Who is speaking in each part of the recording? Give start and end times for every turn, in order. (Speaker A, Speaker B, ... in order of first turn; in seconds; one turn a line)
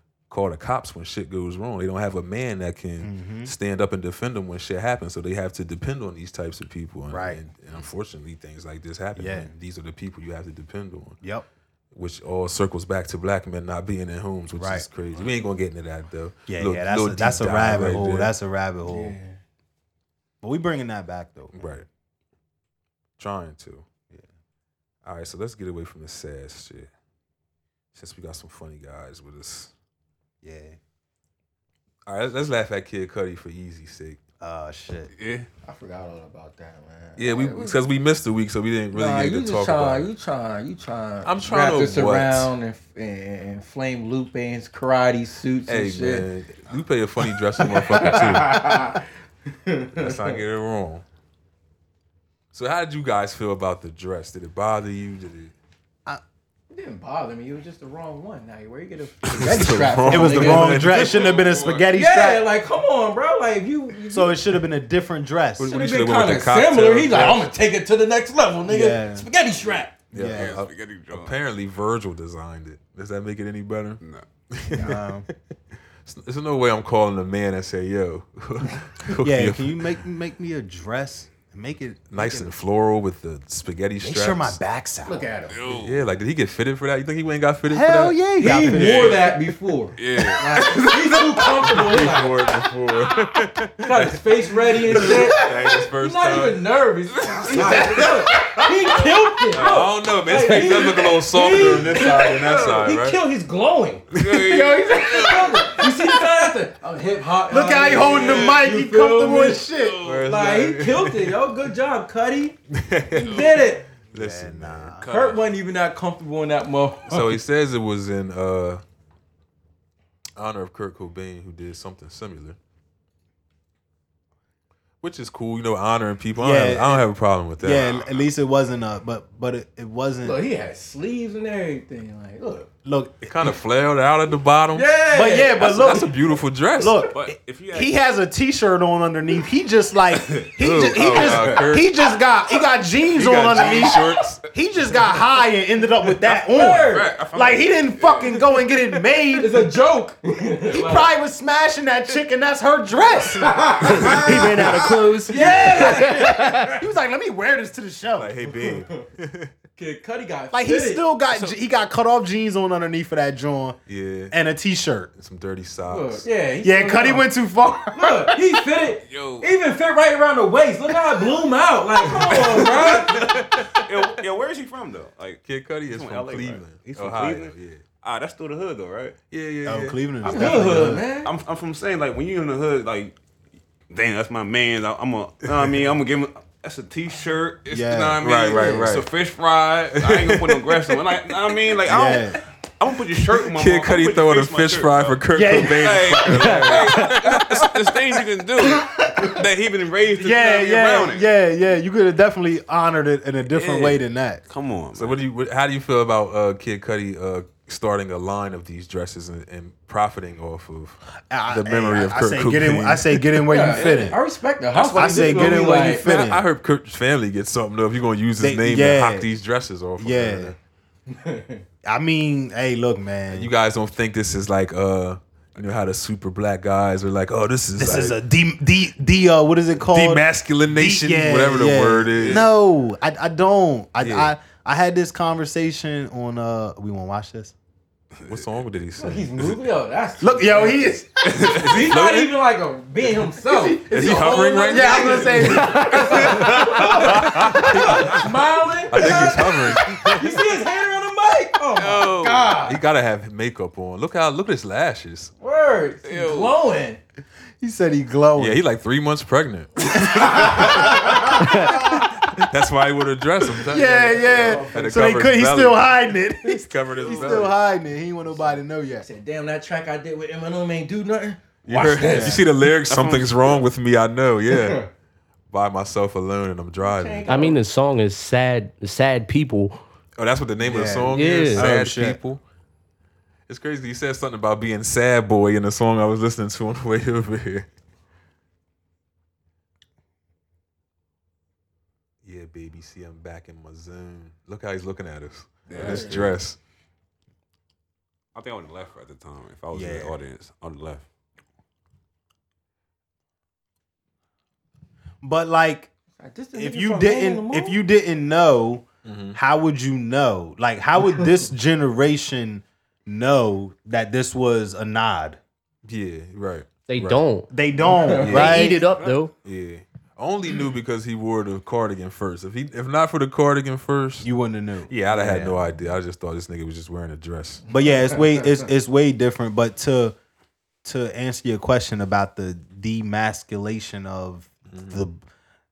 Speaker A: 0.3-11.2
Speaker B: 3.0-3.5
Speaker B: 7.1-7.4
Speaker B: 9.2-9.5
Speaker B: 11.2-11.5
Speaker A: 11.9-18.3
Speaker B: 14.6-14.9
Speaker B: 16.5-19.2
Speaker C: 18.9-19.4
Speaker B: 20.4-21.7
Speaker A: 21.5-21.9
Speaker A: 23.2-23.9
Speaker A: 25.0-26.9
Speaker A: 27.9-29.7
Speaker B: 30.4-30.8
Speaker A: 32.1-34.2
Speaker B: 34.4-35.1
Speaker D: 35.1-35.5
Speaker C: 35.6-37.8
Speaker A: 37.2-40.1
Speaker C: 38.9-46.3
Speaker A: 41.2-42.5
Speaker A: 45.7-48.8
Speaker C: 47.6-50.4
Speaker A: 50.0-51.0
Speaker A: 52.5-55.5
Speaker C: 56.7-60.8
Speaker A: 59.3-61.4
Speaker D: 59.3-59.6
Speaker B: 60.1-62.5
Speaker D: 60.8-61.9
Speaker C: 61.9-64.4
Speaker B: 64.1-65.7
Speaker A: 65.6-67.5
Speaker C: 65.7-69.9
Speaker B: 68.7-69.3
Speaker B: 70.1-70.6
Speaker A: 70.1-75.3
Speaker D: 70.2-71.4
Speaker D: 74.0-74.3
Speaker C: 74.7-75.0
Speaker B: 74.8-75.3
Speaker A: 76.0-79.9
Speaker B: 79.2-82.5
Speaker A: 82.1-84.6
Speaker B: 84.0-85.2
Speaker C: 85.1-85.6
Speaker D: 85.5-86.1
Speaker A: 85.7-89.2
Speaker B: 87.7-89.3
Speaker C: 88.4-92.4
Speaker D: 88.8-89.2
Speaker D: 90.0-90.9
Speaker A: 90.2-94.2
Speaker C: 93.8-109.7
Speaker A: 94.9-96.7
Speaker D: 97.2-98.5
Speaker A: 97.3-98.6
Speaker A: 99.5-103.2
Speaker D: 101.5-102.9
Speaker D: 104.1-105.9
Speaker A: 104.1-104.7
Speaker B: 107.5-110.0
Speaker D: 107.8-108.7
Speaker D: 109.7-110.3
Speaker A: 110.0-111.4
Speaker C: 110.2-112.6
Speaker A: 112.7-115.0
Speaker D: 113.1-113.7
Speaker C: 113.1-113.9
Speaker B: 114.1-115.1
Speaker D: 115.0-115.4
Speaker C: 115.0-117.2
Speaker A: 117.1-118.8
Speaker A: 120.4-122.6
Speaker A: 125.0-127.9
Speaker B: 126.4-127.1
Speaker B: 127.6-130.4
Speaker D: 127.8-128.2
Speaker C: 130.2-132.7
Speaker B: 132.8-133.3
Speaker A: 133.2-134.9
Speaker C: 134.7-136.1
Speaker B: 135.1-136.1
Speaker A: 135.6-137.0
Speaker B: 136.8-149.7
Speaker D: 137.1-137.9
Speaker D: 140.1-141.7
Speaker A: 140.6-141.9
Speaker A: 143.2-144.4
Speaker C: 146.5-147.1
Speaker D: 146.6-148.4
Speaker C: 149.4-151.1
Speaker B: 150.7-158.3
Speaker C: 153.3-154.6
Speaker E: 154.0-156.7
Speaker C: 155.2-156.7
Speaker A: 158.2-159.5
Speaker C: 158.6-159.0
Speaker C: 159.8-161.0
Speaker B: 160.5-163.8
Speaker A: 163.9-164.4
Speaker B: 164.3-165.1
Speaker A: 165.2-166.3
Speaker C: 165.9-167.3
Speaker B: 166.6-168.4
Speaker C: 167.9-173.3
Speaker D: 169.0-169.5
Speaker A: 172.3-174.2
Speaker D: 172.3-179.2
Speaker A: 175.4-177.8
Speaker A: 179.3-180.5
Speaker B: 179.7-181.1
Speaker C: 180.2-181.3
Speaker D: 180.4-183.2
Speaker D: 183.9-201.3
Speaker B: 187.7-188.2
Speaker A: 188.2-189.1
Speaker C: 188.5-188.9
Speaker A: 190.0-191.0
Speaker B: 191.9-192.4
Speaker A: 193.4-197.8
Speaker B: 195.3-196.7
Speaker B: 198.6-199.4
Speaker B: 200.2-204.4
Speaker D: 203.6-204.0
Speaker D: 204.5-205.2
Speaker A: 204.9-213.4
Speaker B: 211.3-214.2
Speaker C: 213.5-216.1
Speaker D: 213.8-214.1
Speaker B: 214.9-216.4
Speaker A: 215.0-220.6
Speaker B: 218.4-219.3
Speaker B: 220.0-220.6
Speaker C: 221.1-221.6
Speaker B: 221.8-223.5
Speaker A: 223.3-228.2
Speaker B: 227.8-237.6
Speaker A: 229.8-232.5
Speaker D: 232.2-232.5
Speaker A: 234.0-234.3
Speaker D: 238.2-238.4
Speaker A: 238.2-239.6
Speaker C: 239.0-241.0
Speaker B: 240.2-241.7
Speaker D: 241.3-241.8
Speaker A: 241.4-242.4
Speaker C: 241.6-252.8
Speaker B: 243.5-248.0
Speaker A: 243.9-248.3
Speaker D: 246.2-247.2
Speaker A: 248.9-250.4
Speaker D: 251.8-252.6
Speaker A: 252.6-255.3
Speaker C: 255.4-257.0
Speaker D: 256.0-256.6
Speaker B: 257.6-258.6
Speaker A: 258.4-267.6
Speaker B: 260.0-262.1
Speaker E: 261.4-261.8
Speaker B: 263.6-269.1
Speaker C: 264.2-265.0
Speaker D: 267.1-267.5
Speaker C: 268.4-272.5
Speaker A: 271.6-274.9
Speaker B: 272.0-272.4
Speaker D: 272.9-273.7
Speaker C: 274.5-274.9
Speaker A: 275.5-277.4
Speaker C: 276.8-277.6
Speaker E: 277.3-279.8
Speaker A: 280.2-282.4
Speaker B: 280.6-282.2
Speaker E: 281.1-281.7
Speaker A: 283.5-287.7
Speaker A: 292.2-296.6
Speaker C: 295.7-296.3
Speaker D: 295.7-296.2
Speaker D: 298.3-301.1
Speaker B: 299.7-300.2
Speaker B: 305.2-305.9
Speaker C: 306.2-307.8
Speaker B: 306.5-315.4
Speaker A: 309.1-309.4
Speaker A: 315.9-317.2
Speaker E: 316.9-317.5
Speaker B: 317.5-318.9
Speaker C: 317.9-318.3
Speaker A: 318.2-318.7
Speaker E: 318.2-319.3
Speaker D: 318.9-319.2
Speaker A: 319.4-324.3
Speaker B: 324.2-325.6
Speaker A: 324.9-327.7
Speaker B: 327.7-330.2
Speaker B: 330.8-335.2
Speaker A: 334.7-335.1